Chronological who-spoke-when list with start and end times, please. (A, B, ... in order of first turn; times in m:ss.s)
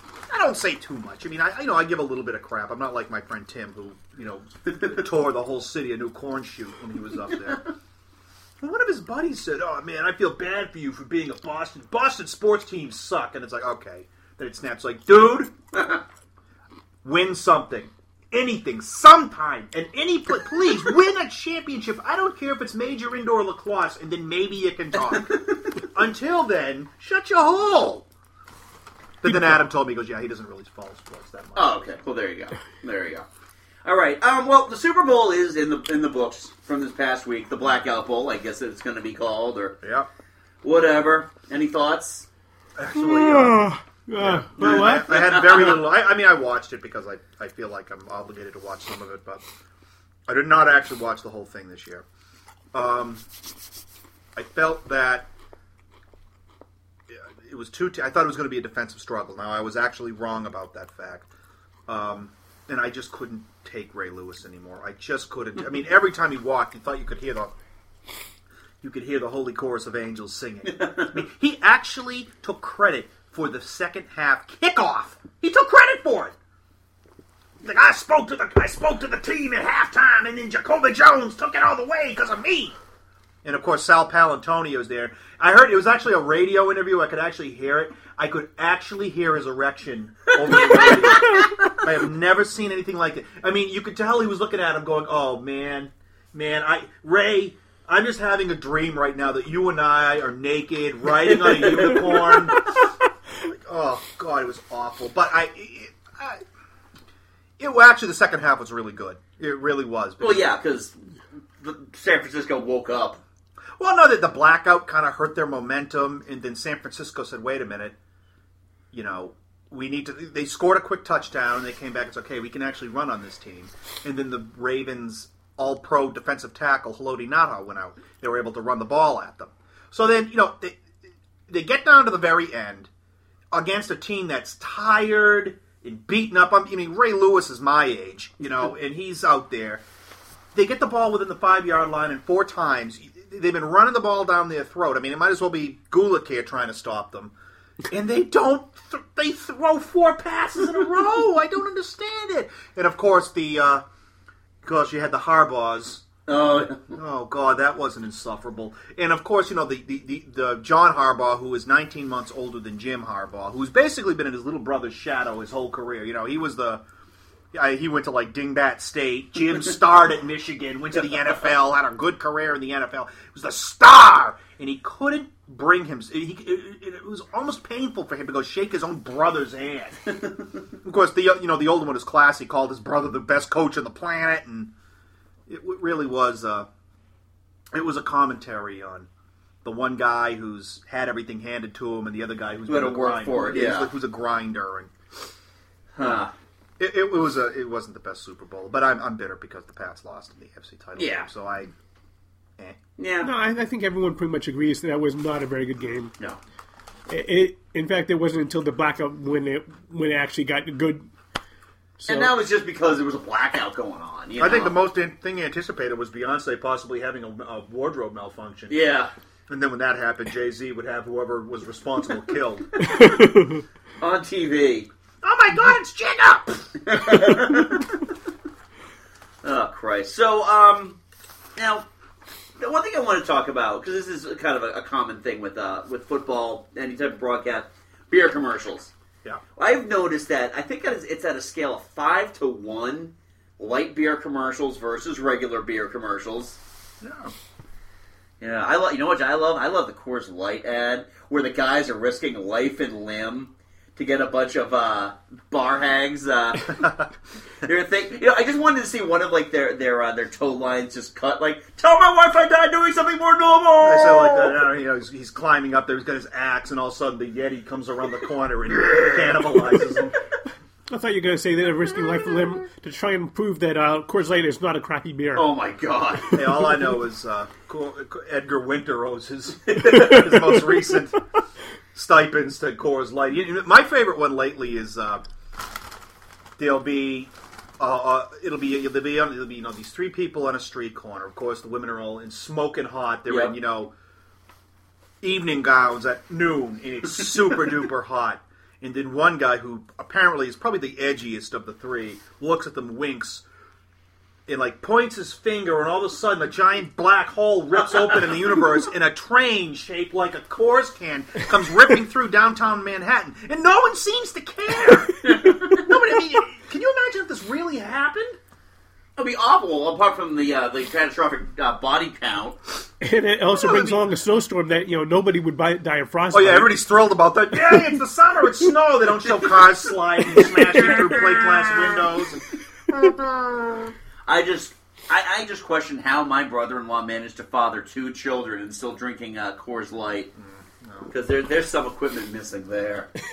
0:00.3-0:07.6 A
0:08.6-0:15.5 A
0:17.0-0:25.4 A
0:25.9-0:28.1 A
0:29.2-0:31.8 A
0:31.5-0:33.2 B
0:33.8-0:39.8 B
0:39.8-0:40.1 A
0:40.6-0:42.3 B
0:42.8-0:49.4 A
0:43.0-0:45.2 C
0:44.8-0:45.8 B
0:50.3-0:52.0 A
0:52.7-0:53.2 A
0:54.3-0:55.3 A
0:57.1-1:01.3 A
1:01.9-1:07.5 A
1:08.8-1:16.3 A
1:10.8-1:11.1 B
1:17.6-1:22.8 A
1:23.4-1:42.8 A
1:41.4-1:42.3 B
1:43.4-1:46.4 A
1:47.6-1:50.5 A
1:50.2-1:51.0 B
1:51.6-1:53.2 B
1:53.8-1:58.0 A
1:58.9-2:10.8 A
2:11.5-2:12.9 A
2:13.5-2:19.8 A
2:20.5-2:27.3 A
2:27.9-2:33.8 A
2:34.6-2:36.1 A
2:36.3-2:36.9 B
2:36.9-2:46.8 A
2:47.5-3:00.0 A
3:00.8-3:04.7 A
3:05.5-3:06.7 A
3:07.7-3:09.1 A
3:09.6-3:14.9 A
3:12.7-3:13.9 B
3:16.0-3:16.3 B
3:16.8-3:21.7 A
3:21.0-3:21.3 B
3:23.0-3:23.3 B
3:23.2-3:26.1 C
3:27.1-3:31.0 C
3:32.0-3:32.3 C
3:32.0-3:34.8 B
3:34.4-3:38.8 A
3:38.7-3:39.1 B
3:39.5-3:42.7 A
3:43.0-3:43.6 C
3:44.0-3:44.9 B
3:45.2-3:47.4 A
3:46.8-3:47.9 B
3:49.4-3:51.0 B
3:51.6-3:51.8 B
3:52.6-3:58.9 B
3:59.6-4:06.6 B
4:07.0-4:07.3 A
4:08.4-4:16.9 B
4:17.6-4:24.6 B
4:23.8-4:30.2 A
4:28.8-4:29.4 B
4:30.9-4:35.4 C
4:35.3-4:36.4 B
4:36.3-4:41.2 A
4:39.8-4:40.1 B
4:41.9-4:45.2 A
4:46.6-4:53.9 A
4:53.3-4:53.5 B
4:55.2-5:03.4 A
5:04.5-5:18.4 A
5:15.2-5:15.8 B
5:19.2-5:22.6 B
5:23.0-5:26.8 C
5:23.5-5:24.0 A
5:26.3-5:32.4 A
5:30.7-5:32.0 B
5:34.2-5:40.3 B
5:40.4-5:41.1 A
5:41.1-5:43.1 B